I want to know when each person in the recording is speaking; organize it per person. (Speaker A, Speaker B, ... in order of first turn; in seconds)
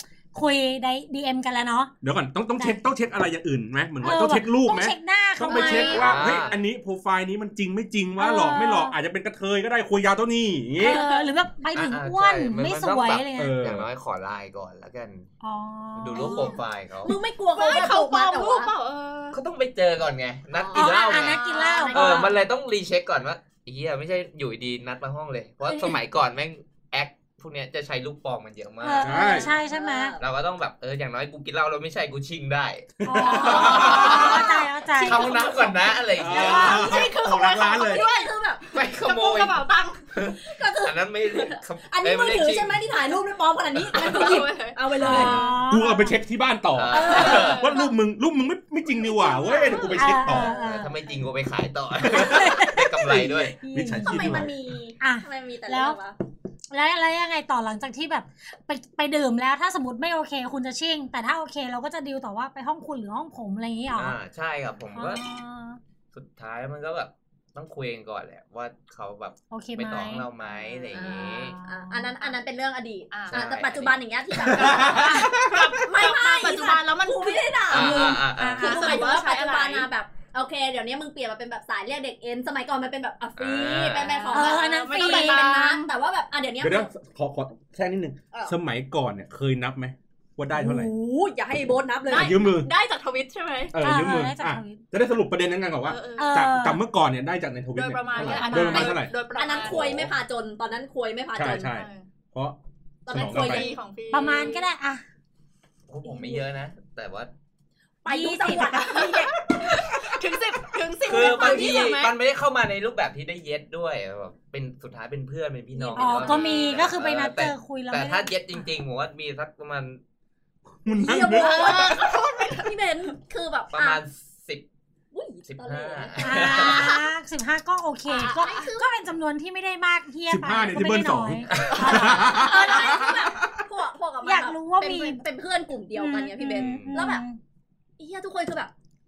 Speaker A: 0.3-1.9, 4.0-6.2, 8.2-8.9, 10.8-13.6, 15.4-16.6, 20.7-22.4, 25.7-25.9, 28.8-30.2, 33.0-35.4, 36.3-37.1, 45.0-46.2, 49.9-50.9, 52.1-54.4, 55.0-56.0, 56.7-64.2, 65.0-65.8, 69.5-70.3, 71.0-72.2, 77.8-79.1, 84.3-85.5, 93.8-94.8, 96.2-96.8, 98.4-99.0, 104.1-105.0, 108.1-108.9, 116.0-118.6, 126.2-132.8, 134.2-135.2, 135.9-137.4
Speaker B: 2.0-11.0, 13.4-13.9, 29.0-29.5, 33.0-34.1, 36.1-38.1, 45.0-50.5, 52.0-54.5, 74.3-75.8, 86.6-90.9, 92.1-92.7, 93.7-100.1, 101.3-102.6, 103.1-103.7, 120.8-121.8, 130.3-133.3
Speaker C: 5.4-6.5, 10.8-11.3, 16.1-18.7, 20.5-22.4, 29.0-30.3, 33.1-38.7, 40.3-45.5, 46.9-47.9, 49.1-50.6, 54.0-56.2, 70.9-86.9, 90.6-92.5, 98.7-101.8, 103.1-103.7, 106.0-106.5, 108.0-110.1, 111.1-111.7, 115.7-116.8, 121.0-124.0, 125.1-126.9, 128.4-128.9, 131.9-137.2, 138.0-138.7
Speaker D: 5.9-6.6, 11.7-15.3, 16.0-17.2, 19.3-29.3, 30.2-36.8, 38.7-42.9, 46.8-47.7, 50.6-53.6, 64.0-65.2, 66.1-71.6, 73.3-74.0, 77.7-78.8, 83.4-84.3, 105.9-107.3, 111.0-120.0, 123.7-124.7, 125.5-127.0, 131.5-132.1, 136.5-137.1
Speaker E: 17.6-19.4, 33.6-33.8, 37.8-38.3, 38.9-40.1, 43.9-44.9, 47.2-47.8, 49.4-49.9, 73.1-73.4, 75.2-78.0, 78.6-79.9, 83.9-85.9, 92.1-93.7, 95.8-96.3, 97.7-100.0, 101.6-102.1, 103.3-104.7, 108.8-112.1, 121.3-122.9, 128.1-128.5